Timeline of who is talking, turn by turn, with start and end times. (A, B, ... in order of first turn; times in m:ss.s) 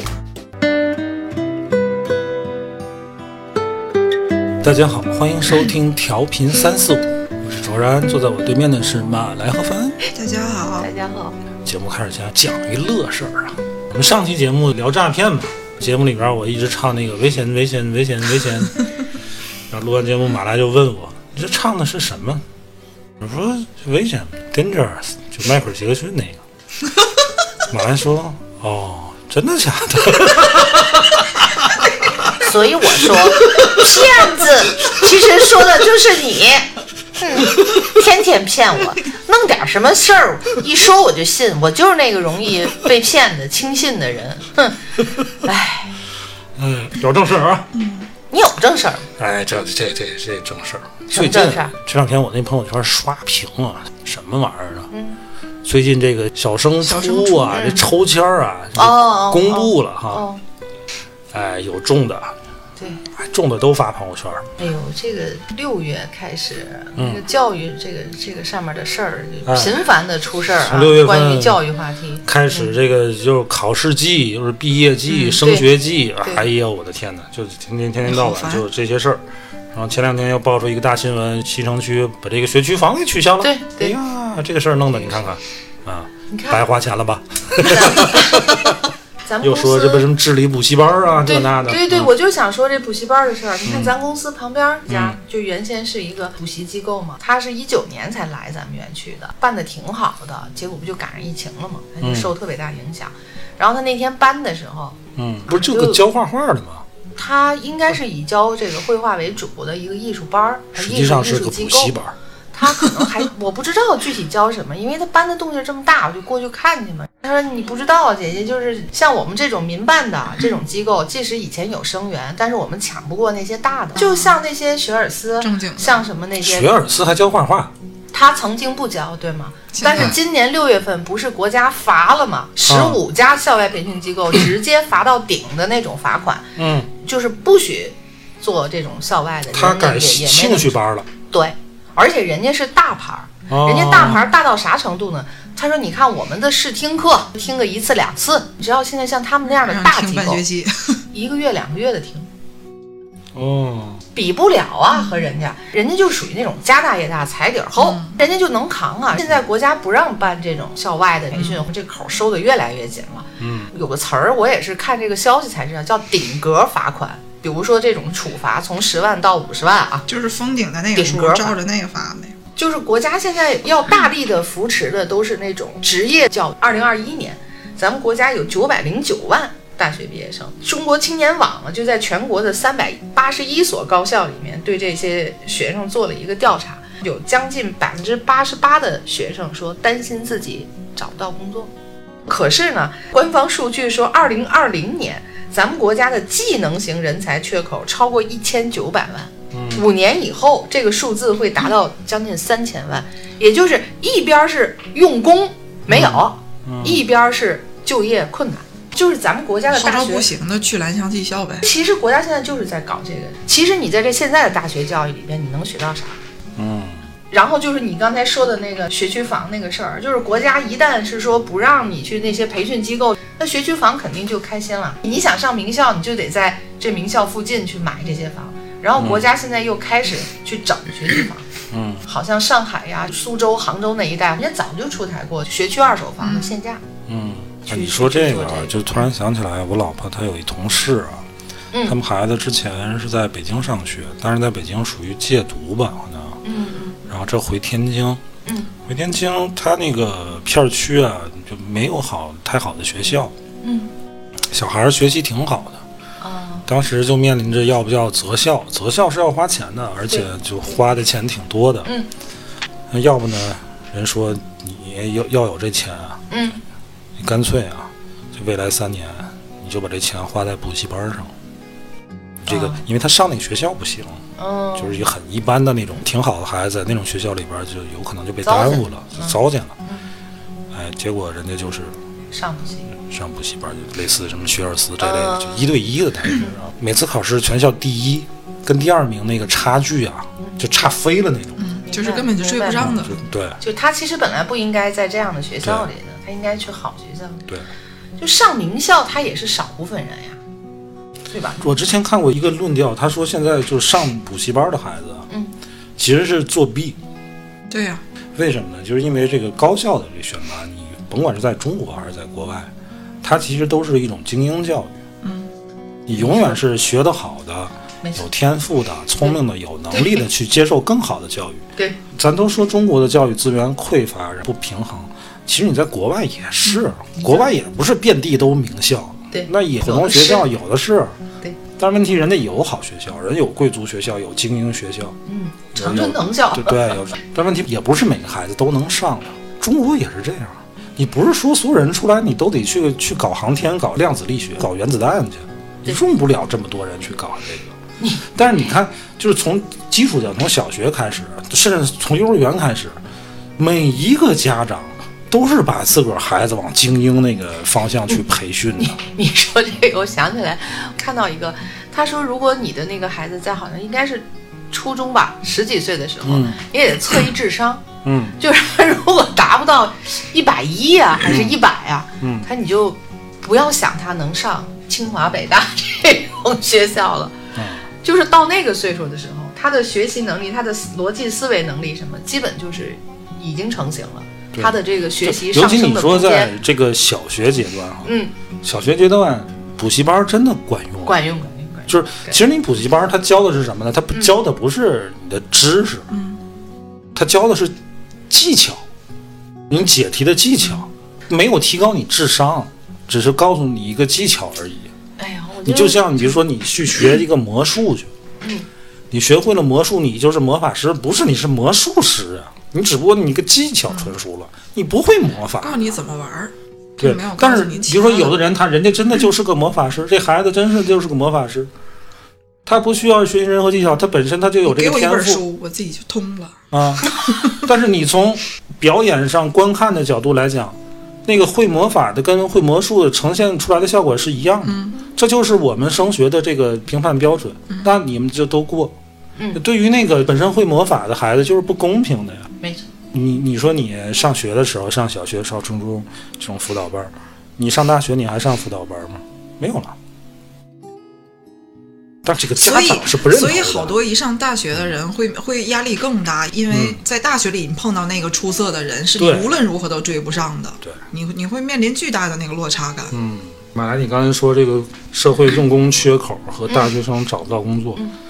0:04.6-0:10.0 A
0:10.1-0:10.9 B
0:10.8-0:11.3 C
0:11.6-0:18.8 A
0:19.7-0:22.4 A
0:23.2-0:26.4 A
0:27.6-0:31.4 A
0:32.3-0:45.9 C
0:46.6-0:47.7 A
0:47.7-0:48.1 B
0:48.3-0:49.1 C
0:49.2-0:54.9 A
0:51.1-0:51.7 C
0:54.9-0:55.2 C
0:55.6-1:00.2 A
0:56.8-0:57.7 B
0:57.5-0:57.8 C
0:58.8-1:00.4 C
1:01.3-1:02.4 A
1:02.8-1:03.0 C
1:03.1-1:04.5 A
1:04.6-1:12.7 C
1:07.0-1:07.2 A
1:09.4-1:09.8 A
1:10.5-1:11.6 A
1:12.2-1:28.8 A
1:15.1-1:15.7 C
1:18.0-1:18.6 B
1:23.4-1:23.9 C
1:24.9-1:25.3 C
1:26.3-1:26.6 C
1:27.6-1:28.6 C
1:29.2-1:30.1 C
1:29.4-1:32.1 A
1:31.2-1:46.0 C
1:33.6-1:33.9 A
1:34.9-1:35.2 A
1:42.0-1:42.3 A
1:45.2-1:46.8 A
1:47.2-1:51.9 C
1:50.8-1:52.1 A
1:52.5-2:06.7 C
2:04.0-2:04.3 B
2:05.4-2:06.0 B
2:06.4-2:07.7 A
2:08.1-2:20.8 C
2:09.7-2:10.2 B
2:12.6-2:13.0 A
2:16.6-2:16.9 A
2:19.5-2:21.1 A
2:21.3-2:30.4 C
2:23.5-2:24.2 A
2:24.0-2:24.2 B
2:29.5-2:31.0 B
2:31.1-2:32.3 C
2:33.3-2:34.0 A
2:34.1-2:50.0 C
2:37.8-2:38.2 B
2:41.3-2:41.6 B
2:43.4-2:43.7 A
2:50.1-2:52.4 B
2:50.9-2:51.6 C
2:52.6-3:11.7 C
3:12.3-3:30.3 C
3:19.5-3:19.8 A
3:25.9-3:27.0 A
3:29.7-3:31.7 B
3:31.6-3:36.2 C
3:36.6-3:37.0 A
3:37.3-3:51.4 C
3:49.0-3:49.3 A
3:51.7-3:52.0 A
3:52.0-3:56.8 C
3:56.2-3:56.5 B
3:57.1-4:01.2 A
3:57.7-3:59.0 C
4:01.7-4:02.0 C
4:01.8-4:06.4 A
4:06.4-4:07.0 C
4:07.1-4:08.2 A
4:08.4-4:08.7 C
4:08.8-4:13.3 A
4:13.6-4:13.9 C
4:14.5-4:15.8 A
4:16.2-4:16.7 C
4:16.7-4:21.9 A
4:22.9-4:26.2 A
4:26.3-4:26.6 C
4:27.2-4:31.3 A
4:32.4-4:34.2 A
4:32.5-4:32.8 C
4:34.4-4:35.0 C
4:34.8-4:39.7 A
4:38.4-4:40.1 C
4:40.7-4:41.9 A
4:42.3-4:42.9 C
4:43.1-4:51.6 A
4:45.0-4:45.7 C
4:51.6-4:53.2 B
4:51.8-4:57.5 C
4:52.8-4:53.6 A
4:55.6-4:55.9 A
4:58.2-5:00.4 C
5:01.3-5:01.6 C
5:01.6-5:05.2 A
5:06.0-5:07.0 A
5:07.7-5:08.0 B
5:08.3-5:12.7 A
5:13.2-5:15.0 A
5:15.2-5:15.5 B
5:16.1-5:31.1 A
5:16.1-5:16.6 C
5:19.9-5:20.2 C
5:27.2-5:27.5 C
5:29.3-5:30.5 C
5:31.8-5:35.2 A
5:35.2-5:37.1 C
5:35.7-5:47.8 A
5:48.3-5:53.0 A
5:53.6-5:59.0 A
5:58.8-6:07.8 C
6:06.2-6:06.6 A
6:08.0-6:08.4 A
6:08.4-6:17.3 C
6:11.2-6:11.6 A
6:12.2-6:12.5 A
6:17.5-6:17.8 A
6:18.0-6:26.5 C
6:24.5-6:31.2 A
6:28.0-6:28.3 C
6:31.0-6:32.4 C
6:31.9-6:36.1 A
6:36.1-6:36.4 B
6:37.1-6:37.7 A
6:38.3-6:38.8 A
6:39.7-6:44.9 A
6:45.2-6:46.3 C
6:45.6-6:48.1 A
6:48.4-6:48.7 C
6:49.1-6:55.8 A
6:53.9-6:54.1 B
6:55.6-6:58.4 B
6:57.0-7:01.7 A
7:02.6-7:05.4 A
7:04.6-7:07.6 B
7:06.7-7:18.9 A
7:14.6-7:15.0 B
7:19.4-7:19.6 C
7:19.5-7:22.5 A
7:22.6-7:22.9 C
7:23.1-7:29.9 A
7:32.2-7:34.0 A
7:32.6-7:43.2 B
7:36.7-7:37.0 A
7:39.2-7:39.5 A
7:43.1-7:48.0 A
7:46.7-7:47.0 C